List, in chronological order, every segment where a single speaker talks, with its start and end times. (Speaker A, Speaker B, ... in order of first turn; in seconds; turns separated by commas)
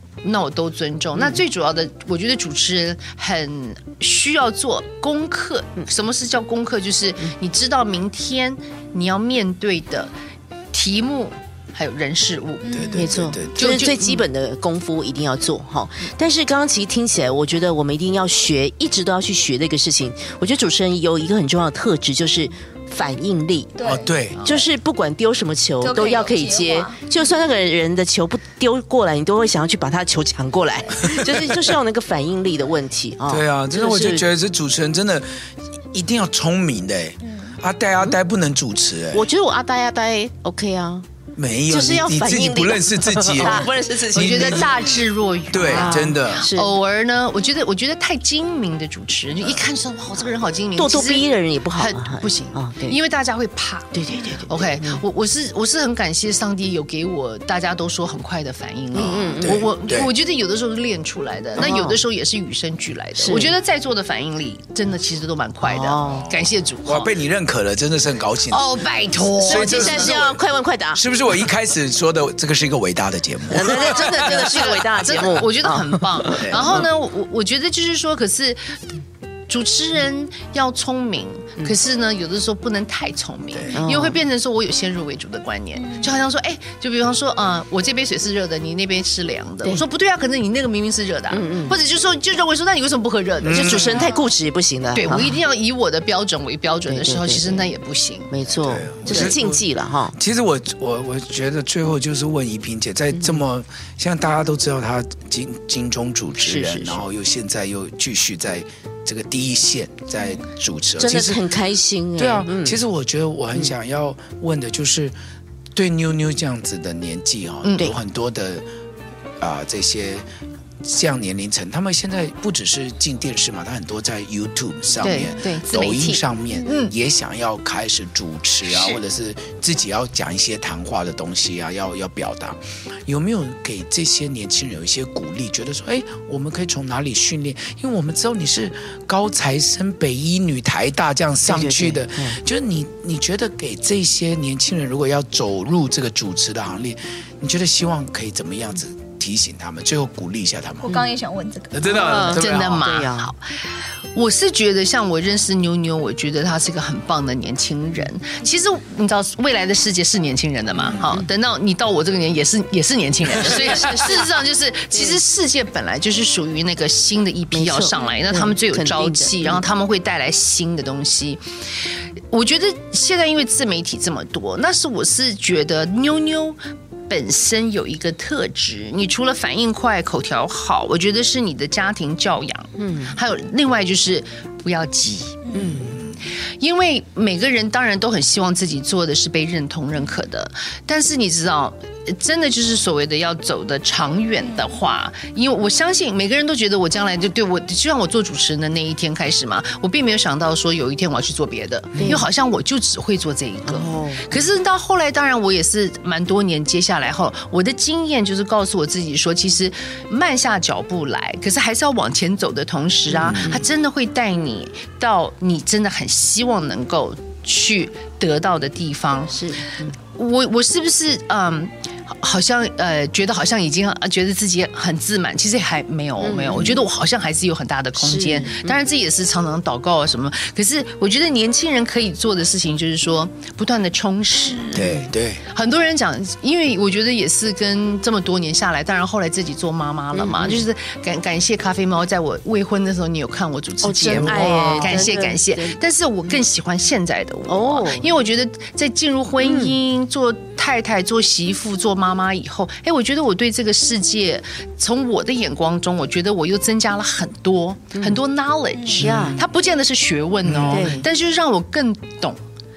Speaker A: 0.2-10.1, Speaker A: 10.7-12.8, Speaker B: 12.6-13.1, Speaker C: 12.7-13.7, Speaker D: 12.9-23.8, Speaker A: 13.6-14.2, Speaker B: 23.8-24.1, Speaker C: 23.8-24.4, Speaker A: 24.4-24.6, Speaker D: 24.4-34.3, Speaker B: 25.8-27.0, Speaker C: 31.0-31.7, Speaker C: 33.3-35.2, Speaker C: 35.9-39.2, Speaker B: 37.2-37.5, Speaker D: 39.1-41.0, Speaker C: 41.3-44.9, Speaker D: 41.7-44.8, Speaker A: 43.4-67.1, Speaker C: 45.5-46.5, Speaker D: 45.6-46.8, Speaker D: 50.8-53.0, Speaker D: 53.9-55.0, Speaker D: 58.9-59.7, Speaker C: 59.0-60.1, Speaker D: 61.5-62.0, Speaker D: 63.2-63.5, Speaker D: 65.6-66.3, Speaker C: 66.1-68.8, Speaker A: 68.5-70.2, Speaker C: 69.3-70.4, Speaker D: 69.5-71.0, Speaker C: 70.9-74.5, Speaker D: 73.5-76.8, Speaker A: 73.7-78.6, Speaker C: 76.3-76.7, Speaker A: 79.5-94.0, Speaker D: 83.7-84.2, Speaker B: 85.8-86.1, Speaker D: 91.3-91.8, Speaker C: 93.4-94.0, Speaker D: 93.5-95.4, Speaker A: 94.9-98.3, Speaker D: 96.9-97.7, Speaker D: 98.3-100.1, Speaker C: 98.6-111.5, Speaker A: 99.1-99.3, Speaker D: 103.1-103.4, Speaker D: 106.4-107.0, Speaker D: 111.0-112.8, Speaker C: 112.2-115.1, Speaker C: 115.8-118.6, Speaker A: 117.6-117.9, Speaker C: 119.4-120.2, Speaker C: 120.8-150.9, Speaker A: 125.0-126.9, Speaker A: 128.7-129.0, Speaker D: 141.4-142.4, Speaker B: 150.9-151.9, Speaker C: 151.7-152.9, Speaker D: 151.8-153.3, Speaker A: 152.2-153.4, Speaker A: 154.1-171.4, Speaker D: 160.9-161.2, Speaker D: 163.3-164.4, Speaker D: 164.9-165.2, Speaker D: 167.5-169.6, Speaker A: 172.3-185.4, Speaker D: 182.8-183.2, Speaker B: 185.4-185.7, Speaker D: 185.5-186.0, Speaker C: 185.8-186.1, Speaker A: 186.6-219.4, Speaker D: 201.9-202.3, Speaker D: 203.7-204.4, Speaker C: 213.1-213.6, Speaker D: 213.3-213.6, Speaker D: 219.3-219.9, Speaker A: 220.1-234.9, Speaker D: 226.2-226.8, Speaker D: 228.0-228.8, Speaker C: 234.7-235.4, Speaker A: 235.5-262.4, Speaker D: 240.1-240.6, Speaker D: 243.8-245.8, Speaker C: 244.1-245.0, Speaker D: 247.5-248.1, Speaker D: 249.4-249.7, Speaker D: 257.9-258.2, Speaker B: 258.7-259.0, Speaker C: 259.0-259.4, Speaker D: 259.0-259.4, Speaker C: 260.4-261.0, Speaker D: 260.7-261.1